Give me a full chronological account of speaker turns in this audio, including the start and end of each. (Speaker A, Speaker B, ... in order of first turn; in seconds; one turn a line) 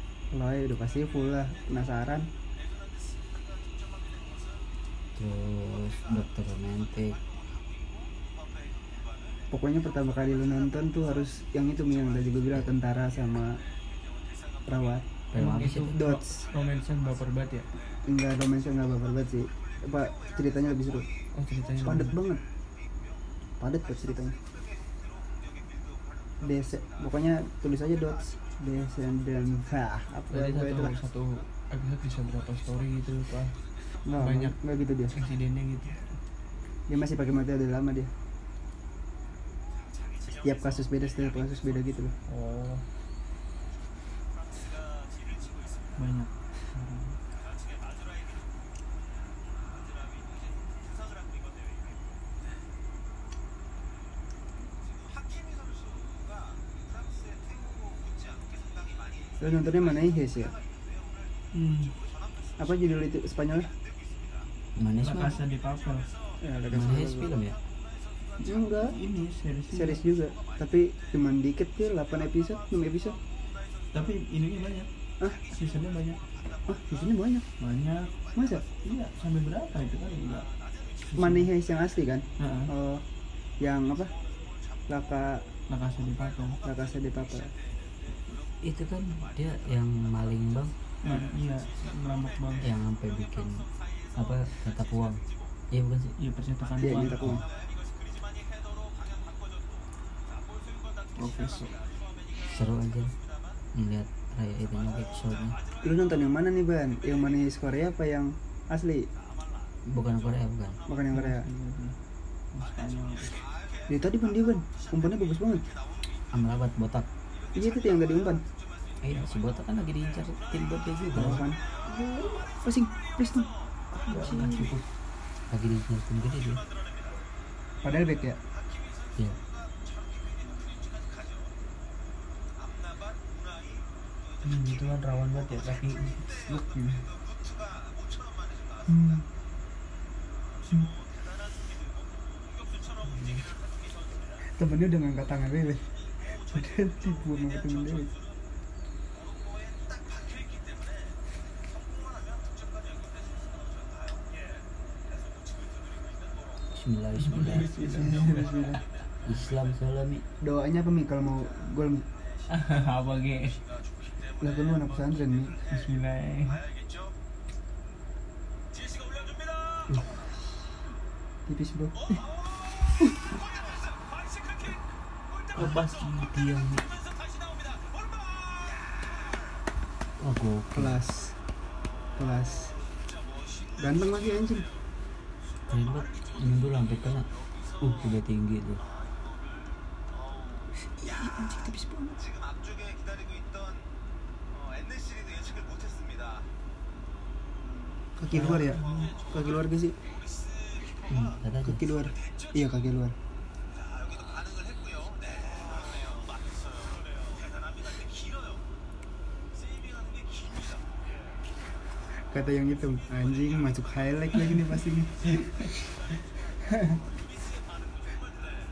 Speaker A: 0.3-2.3
Speaker B: 5.2-7.2
Speaker A: 9.5-13.6
Speaker A: 14.7-15.1
Speaker B: 15.3-16.0
Speaker C: 15.4-17.7
Speaker A: 15.9-16.4
Speaker A: 18.1-21.1
Speaker C: 21.3-22.1
Speaker A: 21.8-22.4
Speaker A: 23.6-24.4
Speaker A: 26.4-30.9
Speaker C: 30.3-33.6
Speaker A: 34.1-35.2
Speaker C: 34.2-34.6
Speaker C: 35.1-36.2
Speaker A: 36.9-38.1
Speaker A: 40.4-42.1
Speaker C: 42.3-42.9
Speaker C: 46.0-47.2
Speaker A: 59.4-60.5
Speaker C: 61.5-62.0
Speaker A: 62.6-63.7
Speaker B: 64.8-65.4
Speaker C: 65.0-66.1
Speaker A: 66.4-67.3
Speaker B: 66.7-67.6
Speaker A: 68.4-69.0
Speaker C: 68.5-70.0
Speaker A: 69.7-73.2
Speaker C: 73.9-74.9
Speaker C: 75.4-76.2
Speaker A: 76.7-77.5
Speaker C: 77.6-80.5
Speaker A: 78.3-78.7
Speaker C: 81.1-81.5
Speaker A: 81.2-83.0
Speaker C: 82.4-82.7
Speaker A: 83.6-84.1
Speaker A: 84.9-85.5
Speaker C: 85.7-86.6
Speaker A: 86.6-87.5
Speaker B: 88.6-90.8
Speaker C: 91.0-92.7
Speaker B: 92.6-96.2
Speaker C: 96.2-97.4
Speaker A: 96.8-97.4
Speaker C: 101.2-101.8
Speaker B: 102.3-103.1
Speaker B: 103.7-105.6
Speaker A: 105.8-109.1
Speaker B: 109.9-110.8
Speaker A: 110.9-111.5
Speaker C: 111.1-112.0
Speaker C: 112.5-113.5
Speaker A: 113.9-115.7
Speaker B: 116.3-117.1
Speaker A: 117.5-118.4
Speaker B: 119.0-121.5
Speaker A: 121.1-123.5
Speaker C: 121.2-121.4
Speaker C: 123.9-124.8
Speaker B: 124.1-124.8
Speaker B: 125.5-126.6
Speaker A: 127.8-128.4
Speaker B: 129.2-129.4
Speaker C: 134.5-137.1
Speaker B: 134.5-136.1
Speaker A: 138.9-139.2
Speaker A: 144.6-145.9
Speaker A: 146.4-148.1
Speaker B: 156.7-158.2
Speaker C: 157.3-158.6
Speaker A: 157.9-158.8
Speaker B: 159.2-160.3
Speaker A: 160.4-162.1
Speaker C: 162.5-163.6
Speaker A: 164.4-165.6
Speaker C: 165.7-166.6
Speaker A: 171.5-172.2
Speaker A: 172.9-173.1
Speaker B: 175.6-176.9
Speaker B: 180.2-181.0
Speaker A: 180.8-181.4
Speaker A: 182.2-182.8
Speaker A: 183.8-184.7
Speaker B: 185.7-187.3
Speaker B: 187.8-188.8
Speaker A: 190.8-192.2
Speaker A: 198.2-200.0
Speaker C: 198.3-199.1
Speaker B: 201.1-201.8
Speaker A: 201.6-203.2
Speaker A: 212.1-215.8
Speaker A: 216.6-217.0